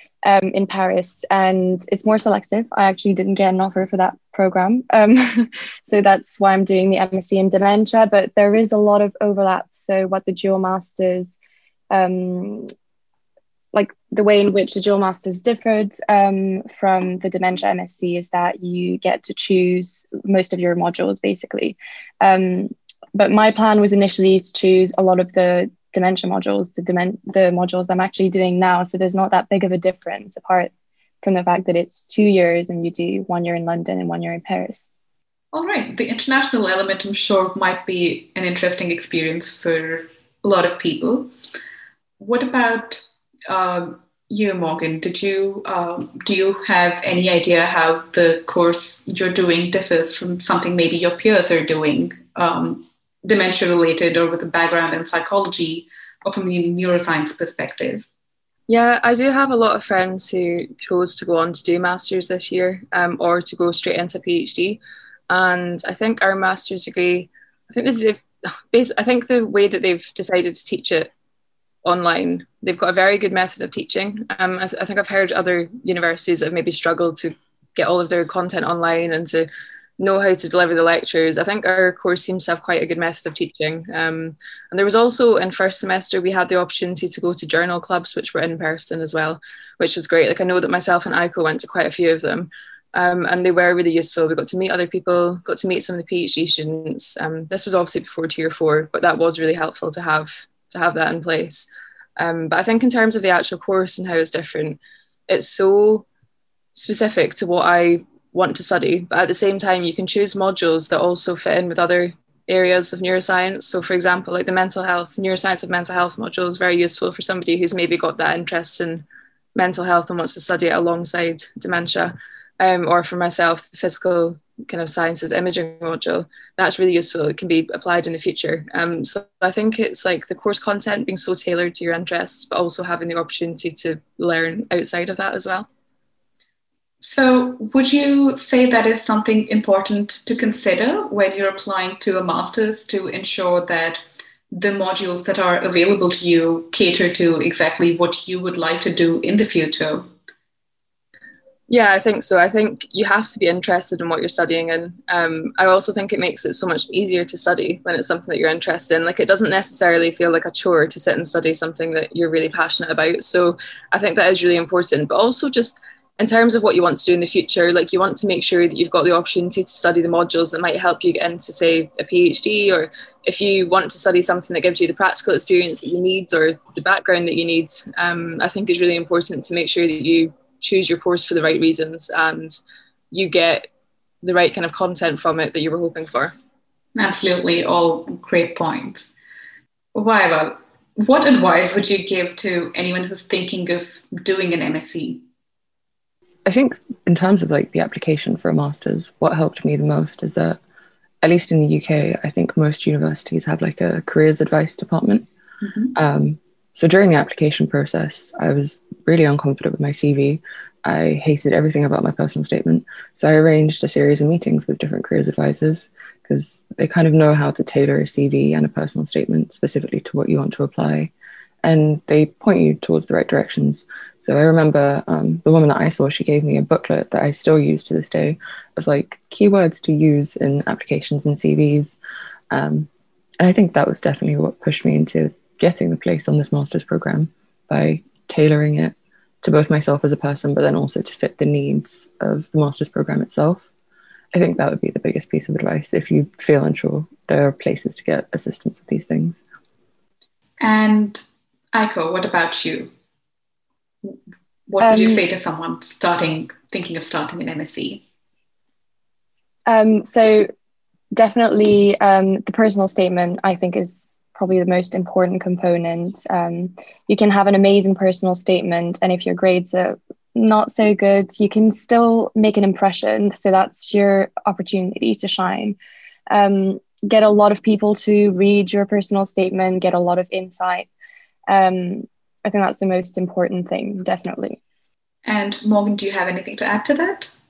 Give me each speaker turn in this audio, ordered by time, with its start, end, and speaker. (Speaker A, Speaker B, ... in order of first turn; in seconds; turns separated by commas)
Speaker A: 0.2-11.4, Speaker A: 11.9-12.7, Speaker A: 13.7-30.7, Speaker A: 31.2-34.9, Speaker B: 35.5-41.3, Speaker B: 42.2-58.1, Speaker C: 58.7-71.1, Speaker C: 71.8-79.5, Speaker C: 80.0-106.1, Speaker C: 106.7-135.7, Speaker B: 137.0-150.1, Speaker C: 151.7-182.6, Speaker C: 183.1-183.7, Speaker C: 184.2-186.3, Speaker B: 186.9-189.1, Speaker B: 189.9-195.2, Speaker D: 196.4-200.6, Speaker D: 201.2-205.3, Speaker B: 205.6-205.9, Speaker D: 205.9-221.1, Speaker D: 221.6-232.0, Speaker D: 232.5-232.9, Speaker D: 233.4-243.7, Speaker D: 244.3-249.4, Speaker B: 250.6-251.2, Speaker B: 251.7-252.9, Speaker B: 254.7-258.0, Speaker A: 254.8-255.2, Speaker A: 259.7-260.5, Speaker A: 261.1-275.8, Speaker A: 276.3-280.9, Speaker A: 281.5-284.6, Speaker B: 285.2-287.3